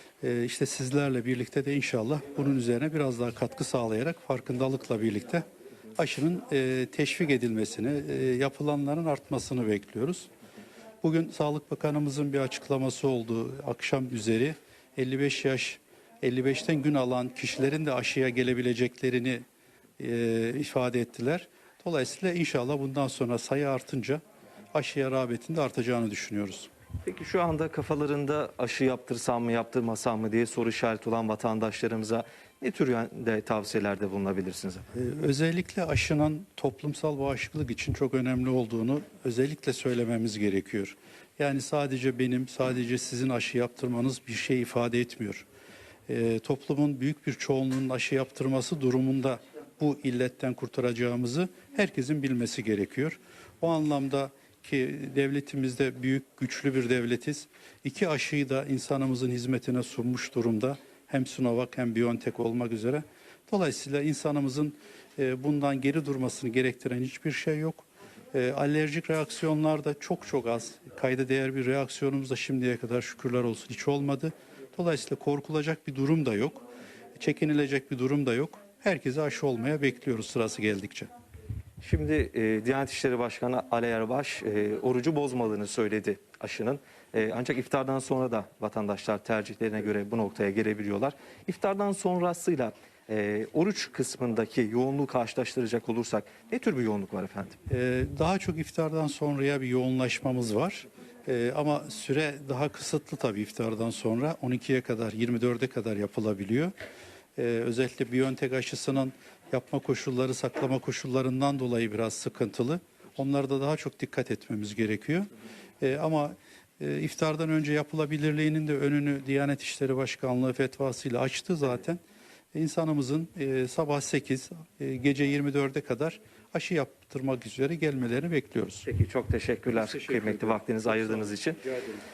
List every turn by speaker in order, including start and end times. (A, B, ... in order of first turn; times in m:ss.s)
0:00.2-0:05.4 A
0:06.0-0:10.3 A
0:11.0-0:19.4 A
0:20.0-0:24.2 A
0:24.7-0:26.7 A
0:27.0-0:34.8 B
0:34.9-0:45.4 A
0:46.1-1:16.6 A
1:17.2-1:21.1 A
1:21.8-1:37.6 B
1:37.7-1:46.7 A
1:47.4-1:55.3 A
1:55.8-2:02.0 A
2:02.5-2:08.8 A
2:08.8-2:11.6 B
2:09.7-2:11.3 A